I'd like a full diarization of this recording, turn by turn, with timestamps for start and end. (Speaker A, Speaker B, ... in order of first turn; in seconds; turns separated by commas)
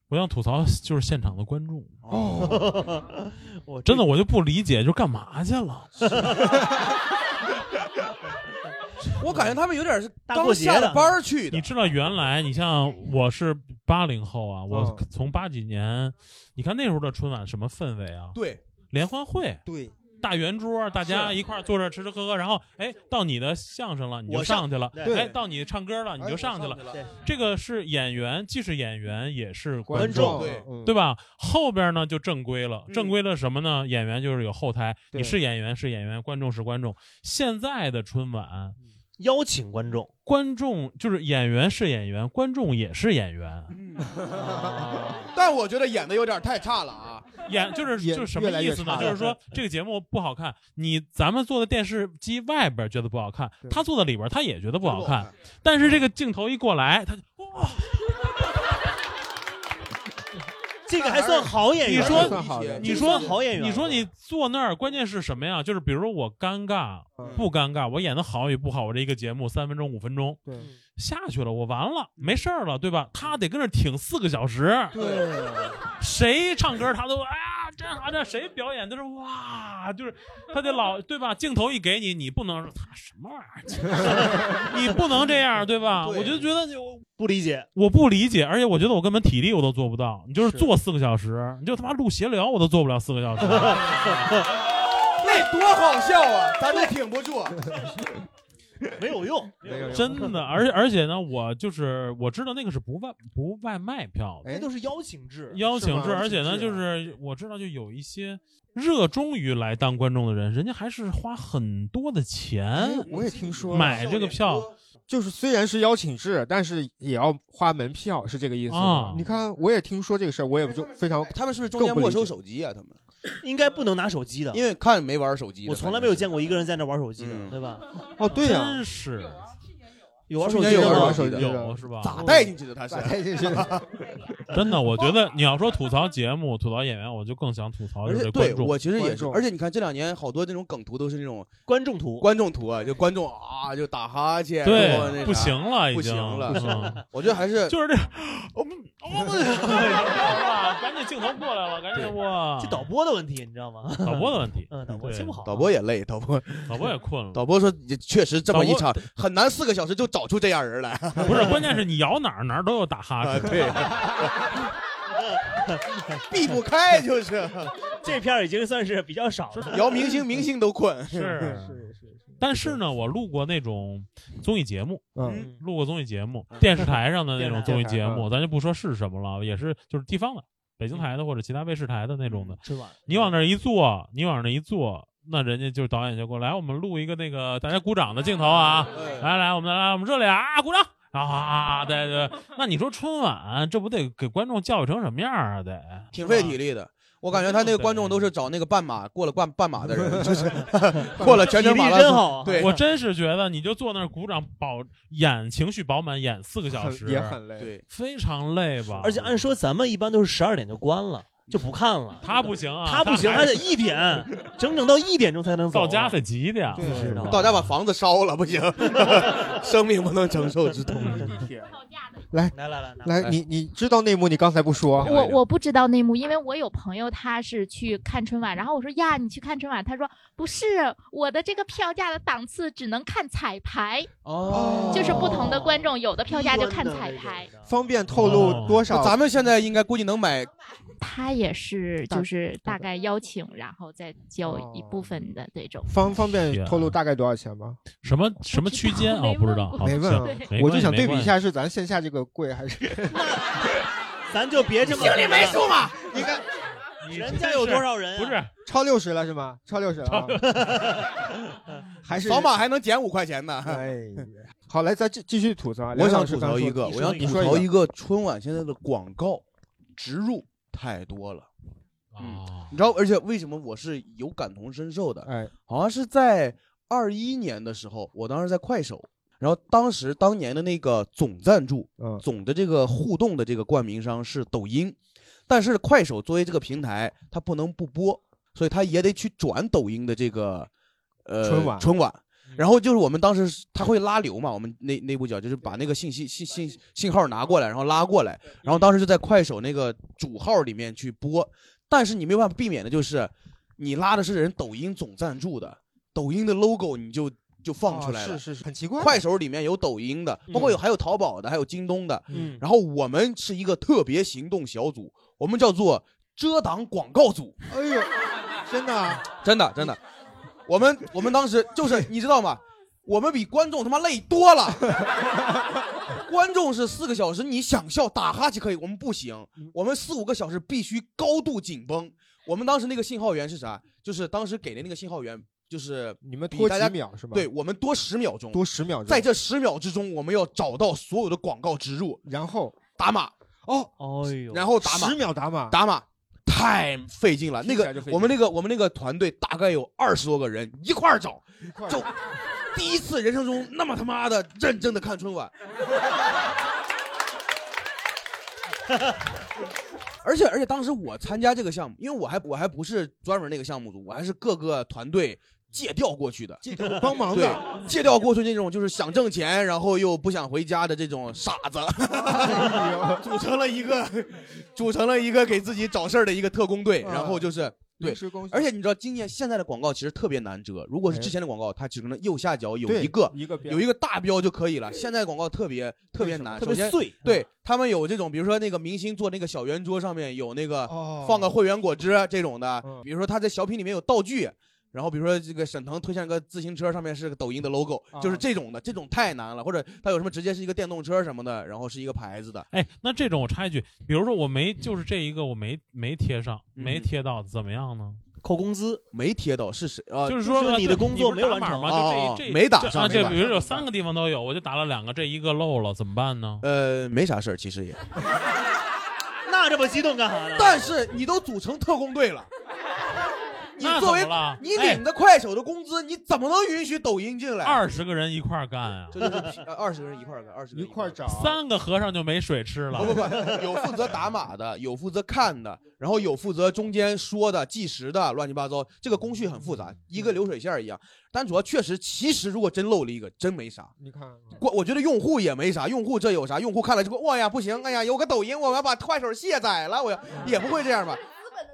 Speaker A: 0.1-2.0, Speaker B: 2.0-2.6, Speaker C: 2.1-2.8, Speaker D: 2.4-4.1, Speaker A: 3.9-6.5, Speaker D: 6.0-6.4, Speaker B: 9.2-11.7, Speaker D: 10.3-11.2, Speaker A: 11.5-18.4, Speaker C: 14.7-15.0, Speaker B: 18.4-18.6, Speaker A: 18.9-19.6, Speaker C: 19.6-19.9, Speaker A: 20.2-38.8, Speaker D: 21.1-21.3, Speaker D: 24.3-25.2, Speaker C: 25.0-25.3, Speaker C: 26.2-26.5, Speaker B: 26.3-27.0, Speaker C: 29.8-31.0, Speaker D: 29.9-30.5, Speaker B: 30.3-30.7, Speaker B: 32.9-33.1, Speaker D: 39.2-40.1, Speaker A: 40.3-43.8, Speaker B: 43.7-44.1, Speaker C: 44.0-44.9, Speaker D: 44.3-45.3, Speaker B: 45.3-47.3, Speaker A: 47.5-58.2, Speaker C: 48.0-49.4, Speaker B: 54.8-55.3, Speaker D: 60.9-64.1, Speaker B: 61.0-63.4, Speaker A: 61.9-70.4, Speaker C: 62.0-63.0, Speaker B: 67.2-67.5, Speaker A: 71.0-75.0, Speaker C: 74.9-75.8, Speaker A: 75.9-87.1, Speaker B: 86.0-86.5, Speaker D: 87.2-87.7, Speaker A: 87.8-94.4, Speaker C: 90.4-90.7, Speaker D: 93.5-94.4, Speaker B: 95.2-97.7, Speaker D: 96.7-96.9, Speaker D: 99.0-100.3, Speaker C: 99.6-100.4, Speaker A: 99.9-104.5, Speaker C: 104.4-104.7, Speaker D: 104.5-105.6, Speaker A: 105.5-113.1, Speaker C: 105.7-106.8, Speaker C: 112.7-114.1, Speaker B: 113.3-114.7, Speaker D: 113.3-113.8, Speaker A: 113.7-114.7, Speaker C: 115.1-122.3, Speaker A: 118.7-119.2, Speaker B: 121.3-123.0, Speaker D: 123.4-124.6, Speaker B: 124.5-126.3, Speaker D: 125.7-127.8, Speaker B: 127.2-127.6, Speaker C: 128.2-128.8, Speaker A: 128.3-129.4, Speaker D: 130.3-131.2, Speaker B: 130.4-131.5, Speaker C: 130.6-134.0, Speaker A: 131.2-132.3, Speaker B: 132.0-134.0, Speaker A: 134.5-138.8, Speaker B: 138.0-141.5, Speaker C: 138.9-139.4, Speaker D: 141.7-142.3, Speaker B: 142.2-147.8, Speaker A: 144.6-147.1, Speaker D: 146.5-147.0, Speaker A: 147.7-152.9, Speaker D: 152.6-155.7, Speaker A: 154.0-155.4, Speaker B: 155.5-161.6, Speaker A: 156.7-157.4, Speaker A: 161.2-163.9, Speaker B: 163.2-164.5, Speaker B: 166.3-167.7, Speaker D: 168.0-170.1, Speaker B: 169.7-171.6, Speaker A: 171.1-171.8, Speaker C: 171.4-172.8, Speaker A: 172.4-196.5, Speaker C: 175.2-175.5, Speaker B: 176.5-176.9, Speaker D: 177.4-177.9, Speaker C: 177.7-178.3, Speaker B: 182.3-182.6, Speaker D: 182.6-183.4, Speaker B: 188.9-189.3, Speaker B: 196.1-202.7, Speaker A: 197.3-198.3, Speaker C: 199.8-201.5, Speaker D: 201.0-202.8, Speaker A: 202.6-207.4, Speaker C: 206.7-207.7, Speaker B: 207.6-207.8, Speaker A: 207.9-209.4, Speaker D: 209.0-212.2, Speaker A: 212.2-213.7, Speaker D: 212.8-216.2, Speaker A: 215.7-217.6, Speaker C: 216.7-217.3, Speaker D: 216.8-217.4, Speaker B: 217.3-221.5, Speaker C: 221.2-221.8, Speaker D: 222.5-223.2, Speaker C: 223.1-225.2, Speaker B: 225.0-225.4, Speaker E: 225.0-234.1, Speaker B: 234.2-235.4, Speaker C: 234.5-235.5, Speaker D: 234.8-237.7, Speaker E: 234.9-237.5, Speaker C: 237.6-239.2, Speaker A: 238.2-238.9, Speaker B: 238.3-240.5, Speaker E: 241.0-245.9, Speaker C: 244.4-245.2, Speaker C: 245.9-247.8, Speaker A: 246.1-247.0, Speaker A: 248.0-251.3, Speaker E: 248.5-250.5, Speaker C: 249.8-253.2, Speaker D: 253.1-253.7, Speaker D: 254.3-255.7, Speaker B: 254.8-256.4, Speaker C: 256.1-256.4, Speaker A: 257.0-258.5, Speaker D: 257.1-258.4, Speaker C: 258.6-260.4, Speaker A: 260.1-260.9, Speaker D: 260.4-261.1, Speaker C: 262.0-262.5, Speaker B: 262.2-263.9, Speaker C: 263.6-267.7, Speaker B: 265.9-269.4, Speaker D: 266.9-267.6, Speaker B: 270.0-271.5, Speaker A: 272.1-272.8, Speaker B: 272.2-285.0, Speaker C: 275.2-275.5, Speaker C: 282.0-282.2, Speaker B: 285.5-290.7, Speaker B: 291.2-308.4, Speaker C: 291.4-291.9, Speaker C: 307.9-309.2, Speaker B: 309.0-317.6, Speaker D: 312.3-312.6, Speaker C: 317.7-318.1, Speaker C: 318.6-319.3, Speaker B: 319.4-320.0, Speaker B: 320.7-325.0, Speaker B: 326.1-342.2, Speaker C: 336.2-337.5, Speaker C: 338.5-339.3, Speaker C: 342.3-342.8, Speaker B: 343.0-343.3, Speaker C: 343.6-343.9, Speaker D: 344.0-344.7, Speaker B: 344.5-355.5, Speaker C: 344.8-345.8, Speaker C: 347.6-348.4, Speaker C: 351.6-352.1, Speaker B: 360.2-402.7, Speaker C: 366.7-367.8, Speaker C: 372.1-373.4, Speaker C: 377.0-378.7, Speaker C: 382.9-383.9, Speaker C: 386.2-386.9, Speaker D: 386.6-387.4, Speaker C: 390.9-391.5, Speaker C: 398.1-398.4, Speaker A: 402.7-408.2, Speaker B: 406.8-407.1, Speaker D: 408.4-409.0, Speaker B: 409.1-410.8, Speaker A: 410.3-416.6, Speaker D: 410.4-412.0, Speaker B: 411.9-413.6, Speaker C: 412.9-413.8, Speaker B: 416.6-418.1, Speaker D: 419.5-420.9, Speaker B: 420.6-422.5, Speaker B: 423.8-427.8, Speaker A: 423.8-425.0, Speaker A: 427.6-429.4, Speaker B: 429.1-431.2, Speaker C: 430.7-431.6, Speaker A: 431.3-433.4, Speaker B: 432.9-443.9, Speaker C: 444.0-444.6, Speaker B: 444.6-451.2